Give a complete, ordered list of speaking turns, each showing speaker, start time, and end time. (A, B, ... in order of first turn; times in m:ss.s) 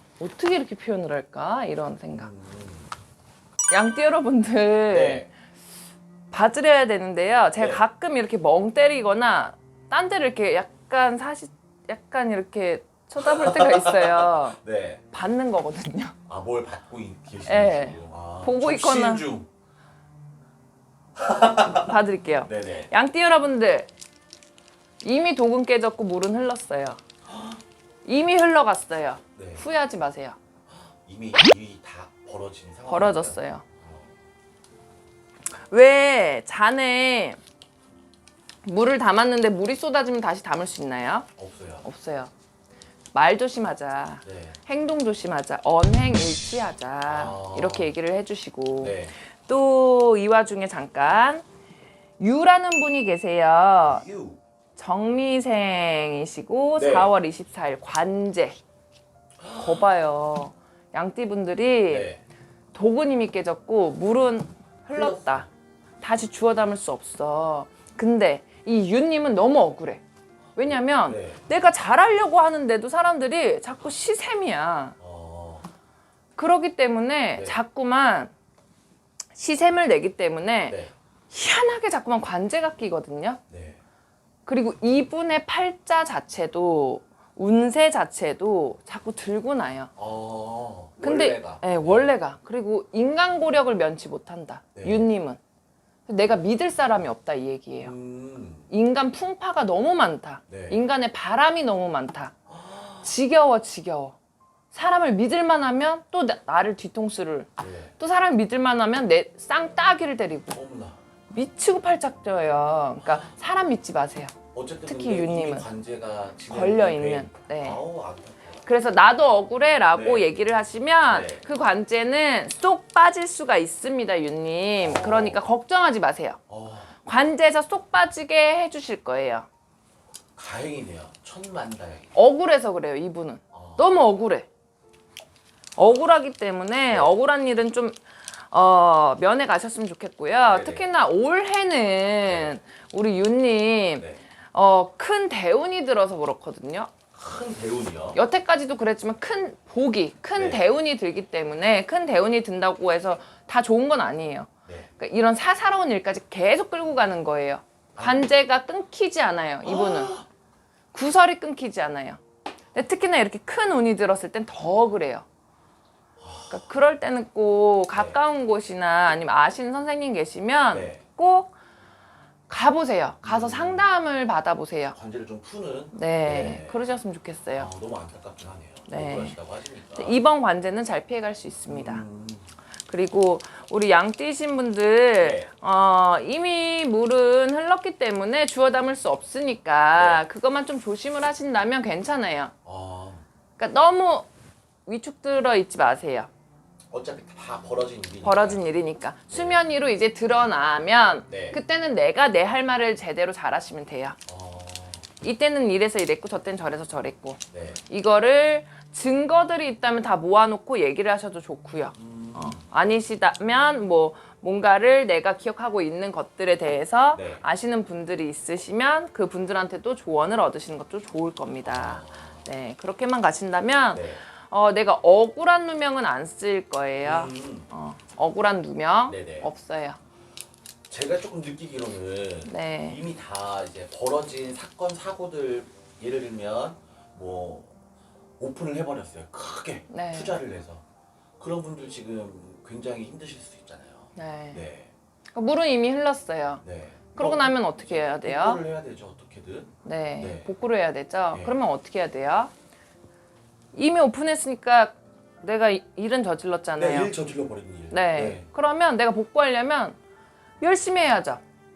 0:00.2-0:02.3 A
0:02.2-0:02.9 B
0:03.7-0:05.3 A
0:04.9-0:05.3 B
0:06.3-0:14.6 A
0:07.6-0:07.8 B
0:13.2-0:15.0 B
0:15.1-0:16.2 A
0:16.3-0:19.5 B
0:17.4-0:19.3 A
0:21.2-0:22.9 B
0:21.6-0:23.9 A
0:25.0-0:27.0 A
0:27.3-0:27.6 B
0:28.0-0:30.4 A
0:29.4-0:29.7 B
0:30.7-0:34.1 B
0:32.9-0:33.6 A
0:35.7-0:37.4 A
0:38.6-0:41.3 A
0:41.4-0:41.9 B
0:41.8-0:42.3 A
0:43.1-0:51.4 A
0:44.2-0:44.6 B
0:47.1-0:47.9 B
0:48.8-0:49.1 B
0:52.2-0:54.0 A
0:53.8-0:54.4 B
0:54.8-0:58.6 A
0:56.8-0:57.1 B
0:59.4-0:59.8 B
0:59.6-1:02.1 A
1:01.9-1:02.2 B
1:02.7-1:05.5 A
1:04.9-1:05.5 B
1:06.0-1:10.0 A
1:10.6-1:15.0 A
1:10.7-1:11.5 B
1:15.0-1:15.7 B
1:16.4-1:18.3 A
1:19.4-1:20.8 A
1:20.7-1:20.9 B
1:21.3-1:23.4 A
1:23.5-1:23.8 B
1:24.5-1:29.9 A
1:30.0-1:32.1 B
1:31.0-1:35.4 A
1:34.8-1:35.0 B
1:36.1-1:37.9 A
1:37.8-1:38.7 B
1:38.7-1:42.3 A
1:40.5-1:40.8 B
1:42.5-1:43.1 B
1:43.0-1:44.2 A
1:44.7-1:50.6 A
1:47.6-1:47.9 B
1:50.5-1:51.0 B
1:51.3-1:55.7 A
1:53.0-1:53.3 B
1:54.5-1:58.7 B
1:56.5-1:57.8 A
1:58.6-2:06.4 A
1:59.9-2:00.3 B
2:01.1-2:01.4 B
2:04.8-2:05.4 B
2:06.5-2:07.0 B
2:07.0-2:09.5 A
2:10.4-2:12.1 B
2:12.1-2:14.5 A
2:13.5-2:13.9 B
2:15.8-2:26.9 A
2:16.9-2:17.2 B
2:20.5-2:20.9 B
2:22.3-2:22.6 B
2:24.0-2:24.2 B
2:27.1-2:28.2 B
2:28.2-2:40.2 A
2:30.4-2:30.6 B
2:38.0-2:38.3 B
2:39.6-2:40.2 B
2:40.9-2:42.2 A
2:42.7-2:45.3 A
2:46.2-2:46.6 B
2:46.5-2:51.5 A
2:47.9-2:48.2 B
2:50.7-2:51.0 B
2:52.5-2:55.0 A
2:53.2-2:53.9 B
2:54.9-2:56.8 B
2:55.9-2:57.7 A
2:57.6-3:00.2 B
2:58.9-2:59.4 A
3:00.0-3:02.0 A
3:01.7-3:02.5 B
3:02.9-3:12.5 A
3:05.2-3:05.5 B
3:10.0-3:10.2 B
3:12.6-3:13.2 B
3:13.6-3:14.3 A
3:14.9-3:16.3 A
3:16.9-3:18.6 B
3:18.2-3:24.2 A
3:19.3-3:19.6 B
3:21.3-3:21.6 B
3:24.3-3:25.1 B
3:25.2-3:50.0 A
3:27.5-3:27.8 B
3:32.0-3:32.6 B
3:37.1-3:37.4 B
3:41.6-3:42.5 B
3:43.9-3:44.2 B
3:47.0-3:47.7 B
3:49.1-3:49.5 B
3:50.9-3:57.7 B
3:52.5-3:53.0 A
3:58.4-4:00.8 B
3:59.9-4:00.4 A
4:01.4-4:04.9 B
4:04.2-4:04.6 A
4:05.3-4:06.6 A
4:06.6-4:10.5 B
4:07.1-4:08.6 A
4:09.8-4:12.5 A
4:13.7-4:17.1 A
4:16.8-4:18.5 B
4:17.9-4:20.0 A
4:20.6-4:21.4 A